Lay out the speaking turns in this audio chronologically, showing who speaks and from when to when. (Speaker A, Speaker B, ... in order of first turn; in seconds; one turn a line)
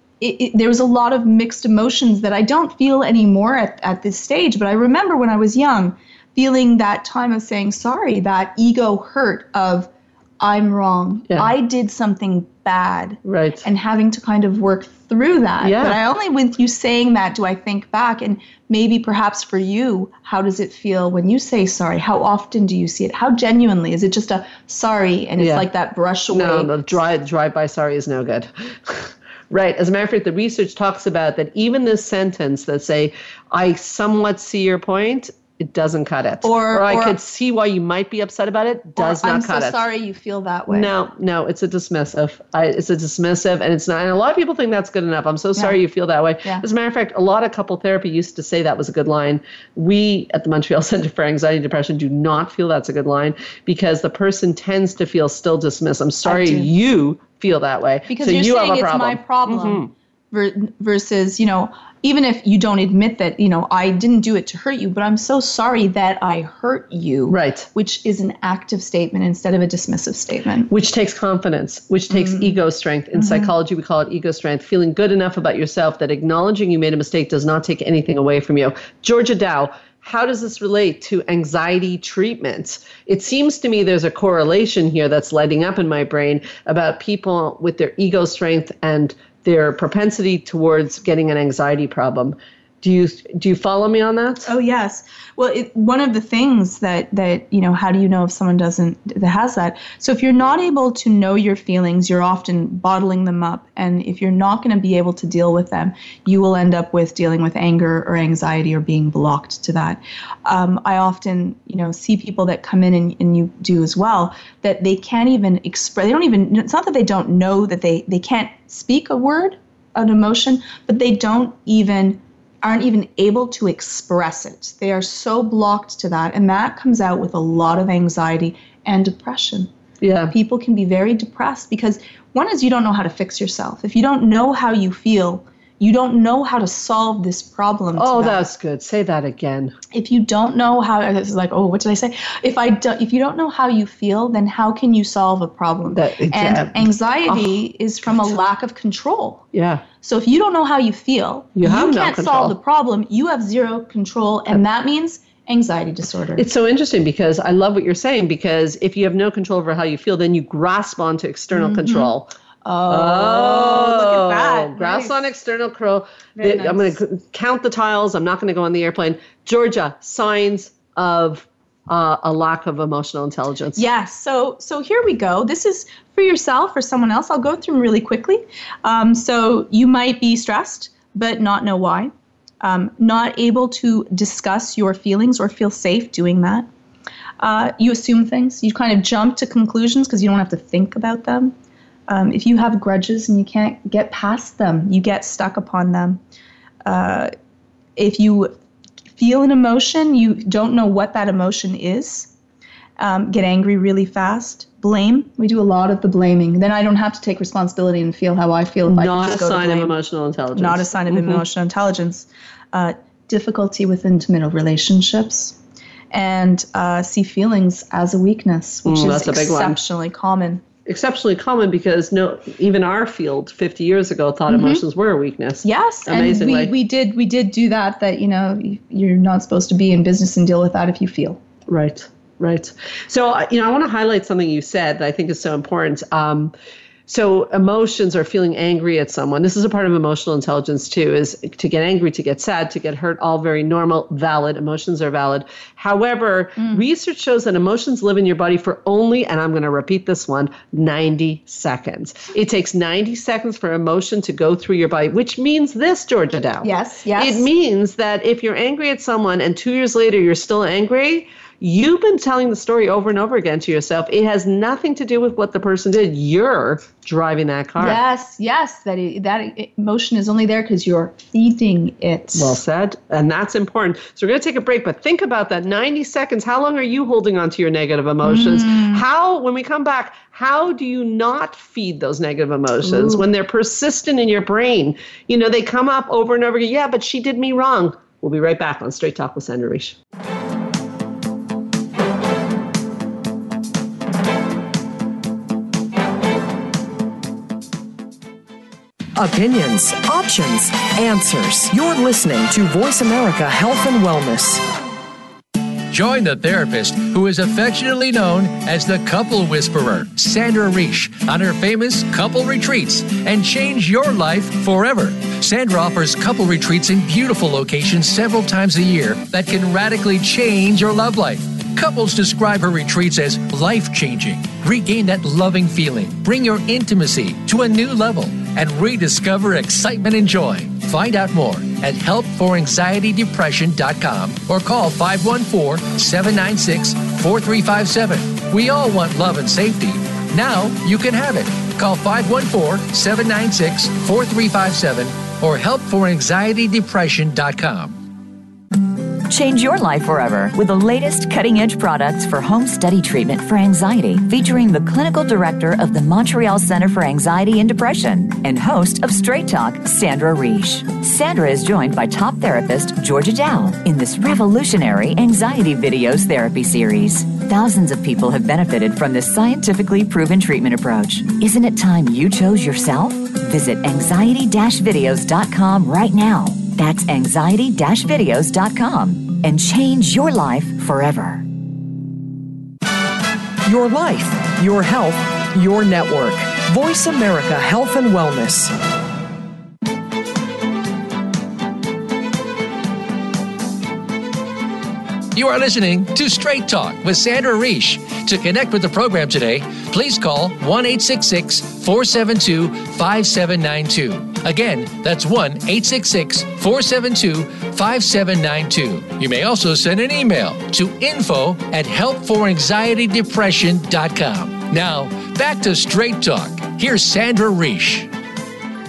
Speaker A: 0.2-26.8
Speaker B: 13.2-13.6
Speaker B: 15.6-16.0
Speaker B: 25.4-25.6
Speaker B: 26.3-39.8
Speaker A: 36.4-37.2
Speaker A: 39.0-40.9
Speaker B: 40.7-59.9
Speaker A: 56.2-56.7
Speaker A: 58.1-70.7
Speaker B: 67.3-67.7
Speaker B: 70.7-94.5
Speaker A: 72.1-72.6
Speaker A: 73.1-73.5
Speaker A: 94.5-129.7
Speaker B: 130.0-130.3
Speaker A: 130.3-138.4
Speaker B: 138.0-139.8
Speaker A: 139.9-149.4
Speaker B: 145.9-147.6
Speaker B: 149.5-149.8
Speaker A: 150.0-156.4
Speaker B: 151.6-152.5
Speaker B: 156.4-162.3
Speaker A: 161.5-162.1
Speaker A: 162.6-165.3
Speaker B: 162.9-173.9
Speaker A: 166.4-166.9
Speaker A: 173.8-186.7
Speaker A: 187.4-191.5
Speaker A: 192.1-196.2
Speaker A: 196.8-197.3
Speaker A: 197.9-198.5
Speaker A: 199.2-202.3
Speaker A: 203.0-209.9
Speaker B: 208.9-211.4
Speaker A: 210.5-215.6
Speaker A: 216.1-220.6
Speaker B: 218.8-219.8
Speaker B: 220.8-226.7
Speaker A: 224.5-224.8
Speaker A: 225.6-231.4
Speaker B: 231.7-236.5
Speaker B: 237.1-268.0
Speaker A: 246.6-246.8
Speaker A: 256.6-257.5
Speaker A: 267.8-272.6
Speaker B: 272.3-289.9
Speaker A: 278.2-279.0
Speaker A: 282.8-283.2
Speaker C: 299.1-304.6
Speaker D: 305.9-348.0
Speaker E: 349.3-381.4
Speaker C: 383.6-388.7
Speaker D: 395.3-418.1